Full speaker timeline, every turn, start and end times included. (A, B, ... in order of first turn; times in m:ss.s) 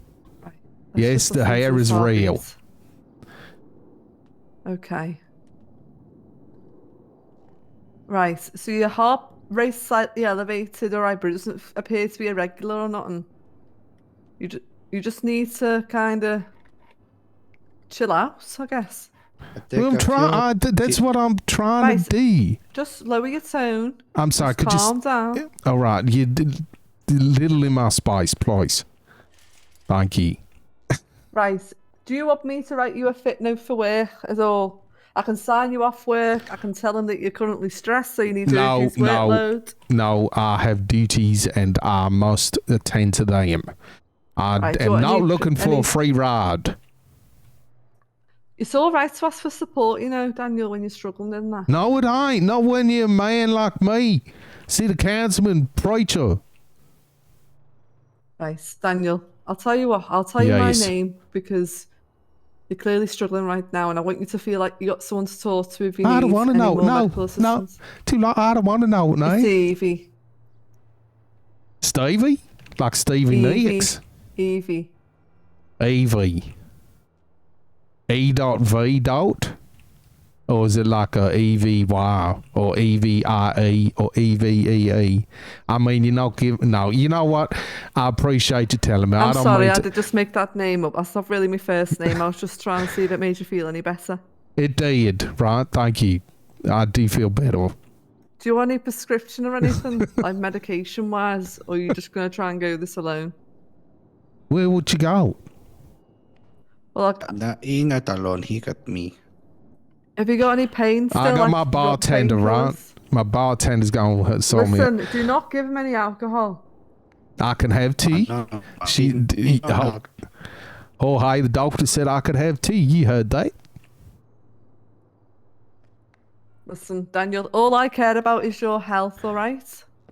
0:00.4-0:02.6 A
0:01.0-0:02.4 B
0:04.7-0:05.2 A
0:08.1-0:13.3 A
0:14.4-0:16.5 A
0:17.9-0:19.1 A
0:19.6-0:21.0 C
0:19.7-0:22.6 B
0:21.8-0:22.1 A
0:22.7-0:25.5 A
0:24.2-0:28.8 B
0:29.9-0:30.4 B
0:31.3-0:39.8 A
0:38.5-0:43.7 B
0:44.4-0:46.8 B
0:44.6-0:45.9 A
0:48.6-0:51.7 A
0:51.7-0:56.4 B
0:58.4-1:01.9 A
1:00.4-1:00.9 B
1:02.7-1:07.8 A
1:06.0-1:09.5 B
1:09.2-1:10.1 A
1:11.8-1:14.0 B
1:13.3-1:14.9 A
1:15.8-1:16.5 B
1:18.1-1:19.6 B
1:20.5-1:29.9 B
1:29.2-1:34.2 A
1:34.6-1:37.7 B
1:38.4-1:43.4 A
1:44.5-1:45.4 B
1:46.9-1:47.3 A
1:47.2-1:49.1 C
1:50.2-1:52.9 A
1:51.1-1:55.0 B
1:54.5-1:56.6 A
1:57.4-2:00.0 B
1:58.1-2:00.1 C
2:01.0-2:03.5 B
2:06.7-2:09.8 A